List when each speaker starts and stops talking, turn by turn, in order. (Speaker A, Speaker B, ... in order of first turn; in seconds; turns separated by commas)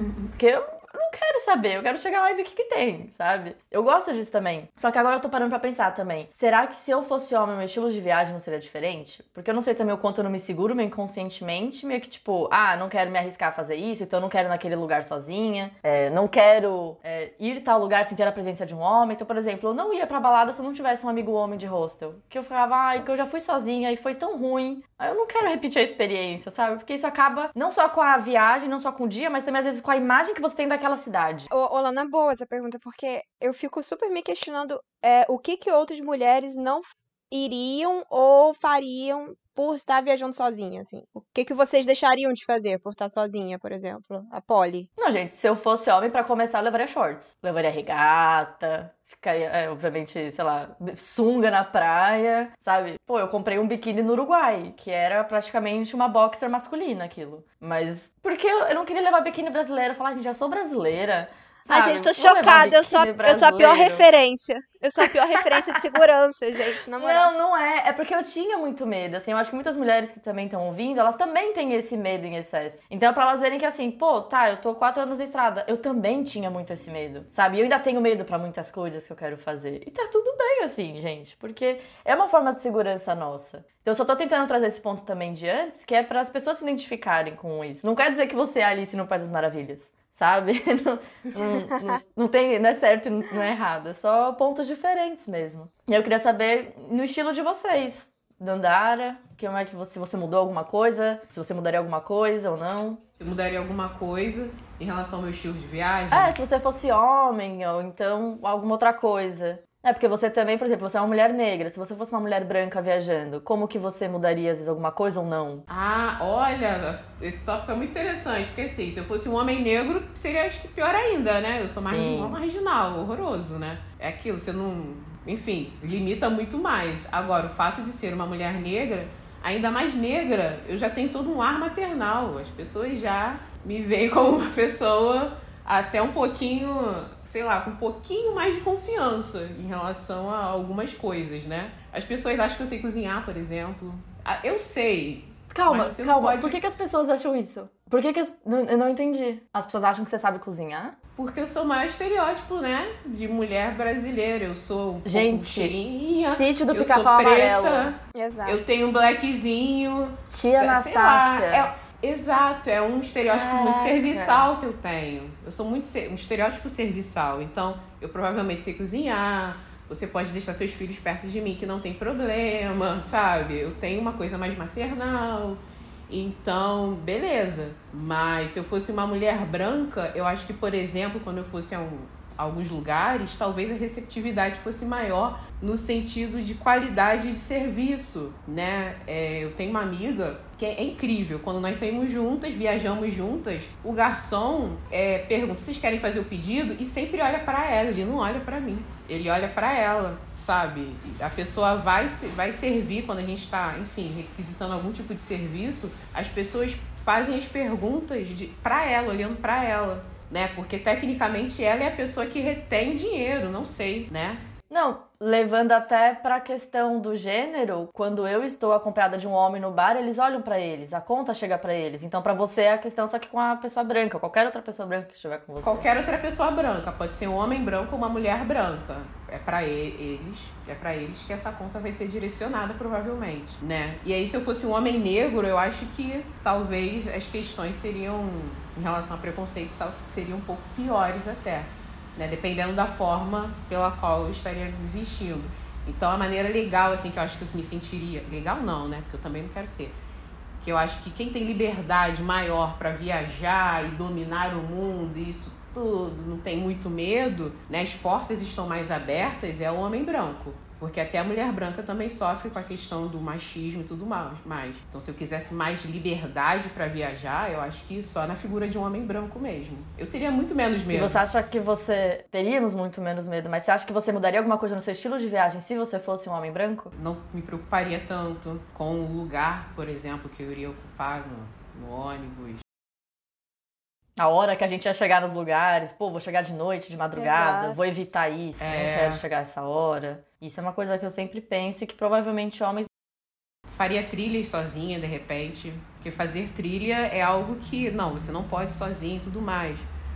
Speaker A: 0.4-31.5, Speaker B: 31.5-44.9, Speaker A: 45.0-64.1, Speaker B: 61.7-67.3, Speaker A: 67.0-103.0, Speaker C: 103.2-106.4, Speaker A: 106.1-115.7, Speaker C: 115.7-146.6, Speaker A: 121.8-122.4, Speaker A: 145.5-151.0, Speaker C: 151.2-214.4, Speaker A: 155.1-155.8, Speaker A: 156.3-157.9, Speaker B: 158.1-158.6, Speaker A: 160.3-161.7, Speaker A: 163.2-164.5, Speaker A: 214.7-225.9, Speaker C: 225.6-249.9, Speaker C: 250.6-271.2, Speaker A: 270.9-276.9, Speaker C: 276.9-282.6, Speaker A: 284.2-292.9, Speaker B: 287.1-287.9, Speaker C: 288.6-289.2, Speaker C: 293.7-299.9